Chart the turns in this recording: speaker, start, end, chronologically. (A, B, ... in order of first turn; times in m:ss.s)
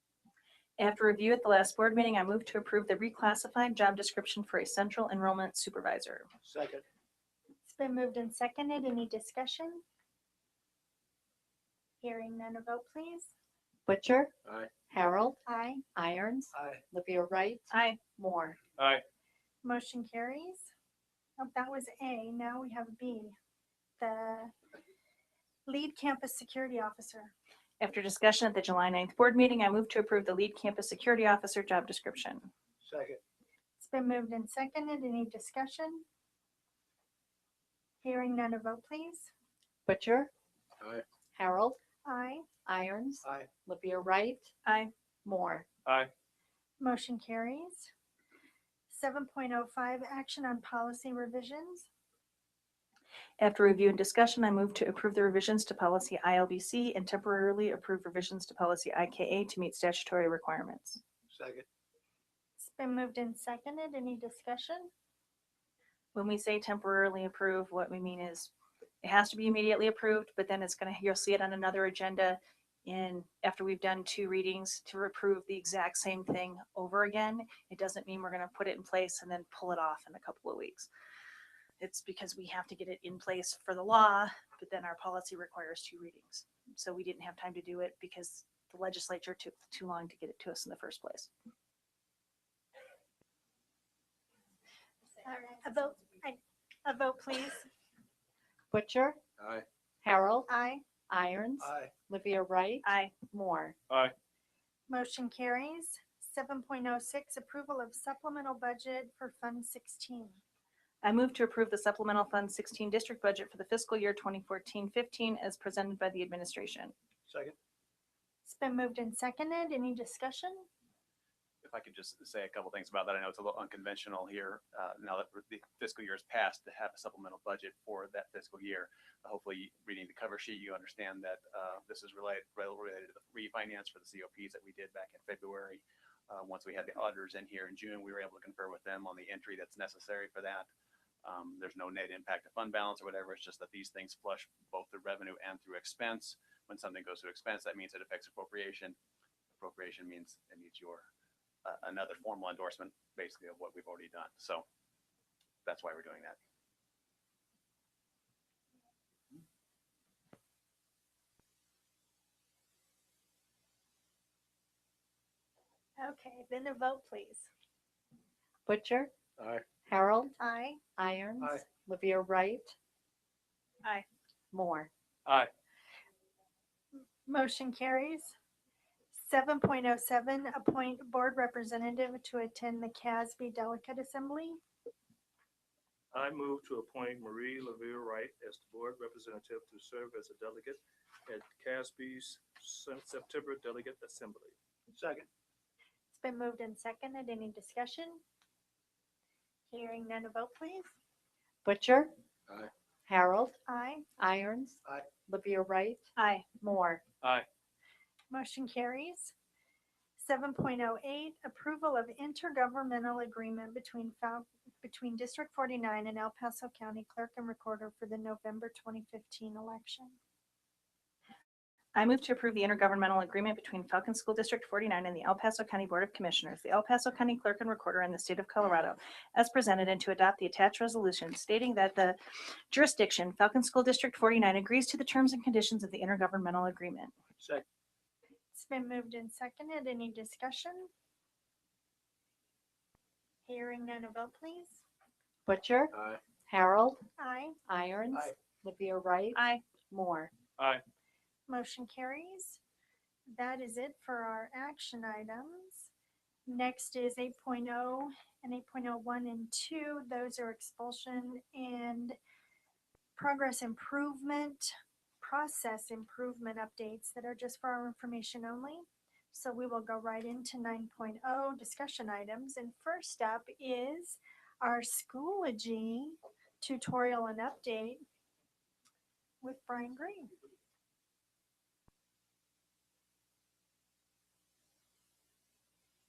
0:00.8-0:06.3 A
0:06.4-0:06.8 B
0:07.6-0:09.8 C
0:12.0-0:13.3 C
0:13.9-0:14.3 D
0:14.9-0:15.4 D
0:15.5-0:15.8 C
0:16.0-0:18.6 D
0:16.5-0:16.8 B
0:17.7-0:18.0 A
0:18.8-0:19.0 E
0:19.6-0:20.7 C
0:21.4-0:23.4 C
0:24.0-0:24.5 C
0:25.7-0:27.3 C
0:27.8-0:32.5 A
0:32.8-0:33.2 B
0:33.8-0:36.0 C
0:38.0-0:39.3 C
0:39.9-0:40.3 D
0:41.3-0:41.8 D
0:42.0-0:42.5 C
0:42.7-0:44.5 D
0:43.2-0:43.5 B
0:44.6-0:44.9 A
0:45.2-0:45.7 D
0:45.9-0:46.1 E
0:46.8-0:47.9 C
0:48.9-0:51.9 C
0:53.4-1:01.0 A
1:01.3-1:01.7 B
1:02.6-1:04.9 C
1:06.2-1:08.5 A
1:09.0-1:20.9 A
1:21.8-1:31.3 A
1:35.2-1:37.7 C
1:38.7-1:39.2 D
1:40.0-1:40.5 D
1:40.5-1:40.8 C
1:41.1-1:43.8 D
1:41.6-1:41.9 B
1:42.8-1:43.1 A
1:43.9-1:44.1 E
1:44.9-1:50.4 C
1:51.0-1:56.9 A
1:57.3-1:57.6 B
1:58.4-2:00.7 C
2:01.6-2:20.7 F
2:21.2-2:29.0 F
2:29.6-2:31.1 F
2:31.6-2:34.6 F
2:35.6-2:36.4 F
2:46.0-2:47.5 C
2:48.7-2:49.1 D
2:49.8-2:50.4 D
2:50.4-2:50.8 C
2:51.0-2:52.8 D
2:54.5-2:54.9 D
2:55.3-2:55.5 E
2:57.0-2:58.4 C
2:59.1-3:04.6 C
3:06.1-3:14.5 E
3:14.9-3:15.3 B
3:16.1-3:18.2 C
3:19.7-3:20.9 C
3:21.6-3:22.1 D
3:23.1-3:23.6 D
3:23.7-3:24.0 C
3:24.2-3:26.1 D
3:26.2-3:26.4 A
3:26.6-3:27.0 D
3:27.2-3:27.5 E
3:28.3-3:29.3 C
3:30.2-3:40.2 C
3:42.0-3:52.2 A
3:52.7-3:57.1 A
3:58.5-4:00.9 C
4:03.5-4:04.8 C
4:05.5-4:07.0 D
4:07.2-4:07.6 C
4:07.7-4:10.3 D
4:09.4-4:09.6 A
4:10.6-4:10.8 E
4:11.5-4:12.6 C
4:13.3-4:15.9 C
4:16.5-4:22.2 C
4:23.2-4:38.0 C
4:39.4-4:40.3 C